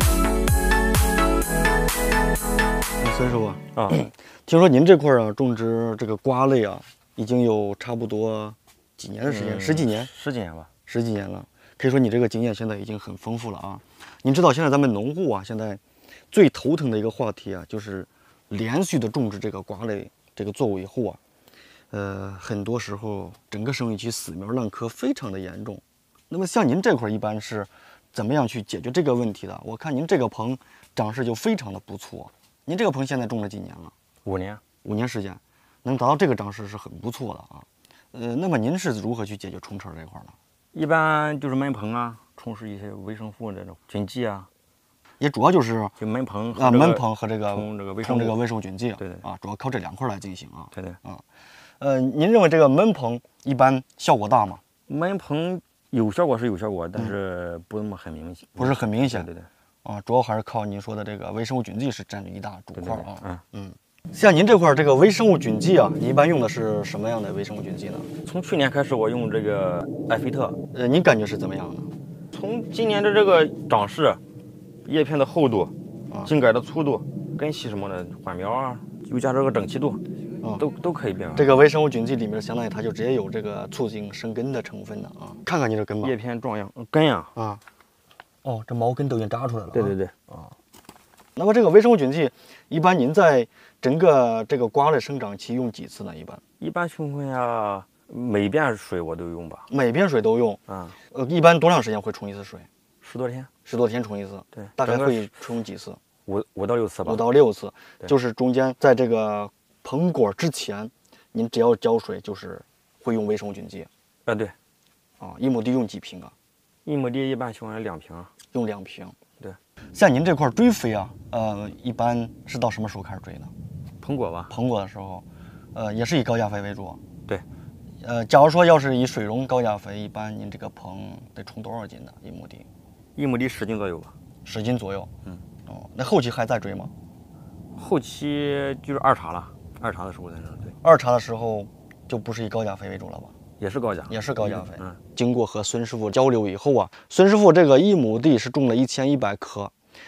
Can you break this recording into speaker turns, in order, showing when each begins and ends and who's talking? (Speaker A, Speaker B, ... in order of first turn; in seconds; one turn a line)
Speaker A: 3.0-10.1
Speaker B: 9.2-10.7
Speaker A: 10.9-15.8
Speaker A: 16.3-21.2
Speaker A: 21.9-33.9
Speaker B: 34.2-34.6
Speaker A: 34.8-40.3
Speaker B: 40.7-44.5
Speaker A: 45.2-45.9
Speaker B: 46.0-48.4
Speaker A: 46.5-51.2
Speaker B: 49.0-49.2
Speaker B: 50.7-51.0
Speaker A: 51.8-54.6
Speaker B: 54.9-59.5
Speaker A: 58.6-59.3
Speaker A: 59.8-68.1
Speaker B: 62.8-63.4
Speaker B: 68.2-70.6
Speaker A: 70.7-71.9
Speaker B: 72.3-74.2
Speaker B: 74.8-75.7
Speaker B: 76.2-80.0
Speaker B: 80.6-81.5
Speaker A: 81.3-86.1
Speaker B: 86.0-87.3
Speaker A: 87.3-87.6
Speaker A: 88.4-90.0
Speaker B: 89.7-90.5
Speaker A: 91.3-96.4
Speaker B: 96.6-99.7
Speaker A: 99.7-102.7
Speaker B: 100.7-101.0
Speaker B: 103.0-103.5
Speaker A: 103.7-106.0
Speaker B: 104.5-105.3
Speaker B: 106.2-107.2
Speaker A: 107.0-113.9
Speaker B: 114.2-114.5
Speaker A: 115.2-116.3
Speaker B: 116.8-118.3
Speaker A: 118.5-119.2
Speaker A: 119.9-123.5
Speaker B: 124.0-124.5
Speaker A: 124.5-127.0
Speaker A: 128.0-132.7
Speaker B: 133.2-134.1
Speaker A: 134.4-135.1
Speaker A: 135.7-136.9
Speaker B: 137.7-140.8
Speaker A: 140.8-143.3
Speaker B: 143.6-145.0
Speaker A: 144.1-149.7